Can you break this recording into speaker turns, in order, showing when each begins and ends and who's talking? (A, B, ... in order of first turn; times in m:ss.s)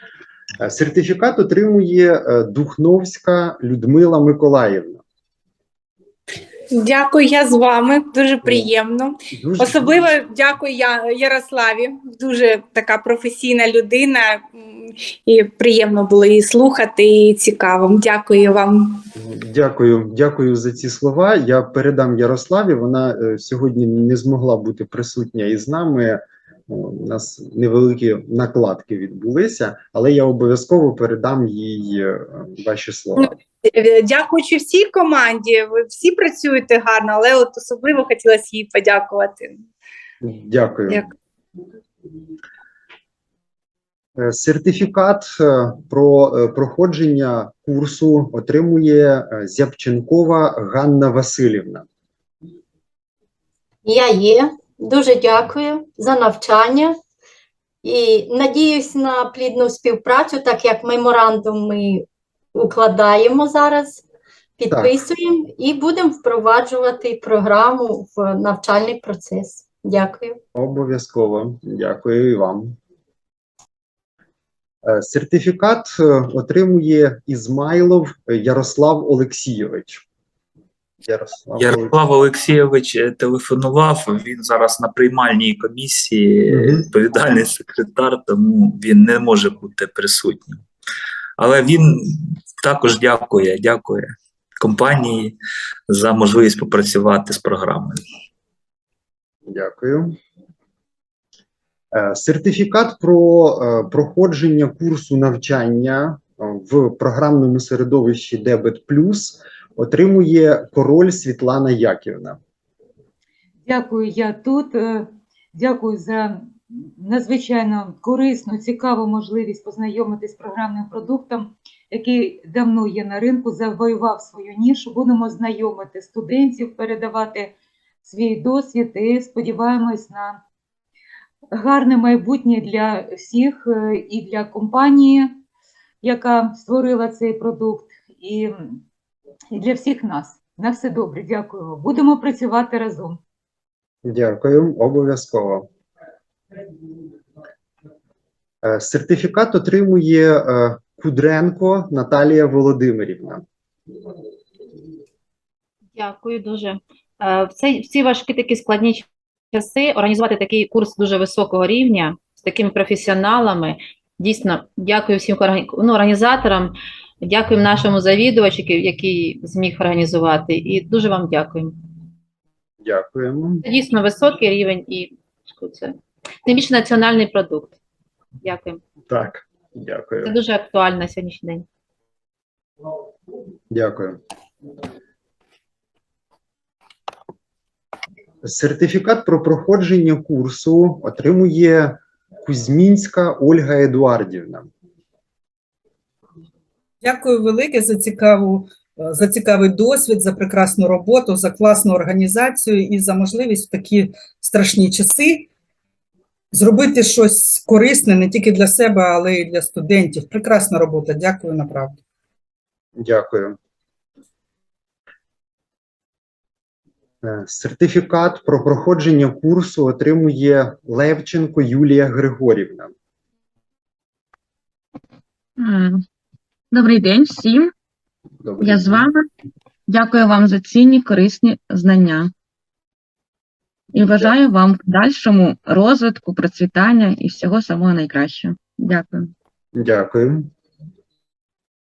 0:00.6-0:05.0 A
0:06.7-0:19.0 B
0:08.4-0:08.7 A
0:09.3-0:10.1 A
0:19.2-0:33.3 A
0:33.2-0:39.7 B
0:40.2-0:41.0 A
0:44.2-0:51.8 A
0:53.8-0:57.0 C
0:57.8-1:04.0 C
1:04.6-1:10.4 C
1:10.5-1:12.8 A
1:14.8-1:20.0 A
1:21.0-1:21.9 A
1:21.6-1:30.6 D
1:26.5-1:26.9 A
1:31.4-1:35.4 D
1:35.9-1:38.0 D
1:39.5-1:40.2 A
1:41.9-1:52.4 A
1:53.6-2:07.5 E
2:08.0-2:10.4 E
2:11.5-2:15.3 E
2:16.0-2:18.8 E
2:19.5-2:23.2 E
2:24.0-2:25.7 A
2:28.6-2:33.4 A
2:36.0-2:51.8 F
2:52.8-2:53.6 A
2:53.6-2:57.7 F
2:58.4-2:58.8 F
2:59.1-3:00.3 A
3:00.2-3:01.6 F
3:03.7-3:04.2 A
3:08.4-3:14.7 A
3:17.0-3:25.5 G
3:26.5-3:32.0 G
3:33.0-3:33.6 A
3:37.2-3:42.9 A
3:45.6-3:46.0 H
3:46.7-3:47.7 H
3:48.4-3:49.1 A
3:48.6-3:49.2 H
3:49.9-3:52.3 H
3:53.9-3:59.3 H
3:54.0-3:54.3 A
3:59.7-4:00.5 A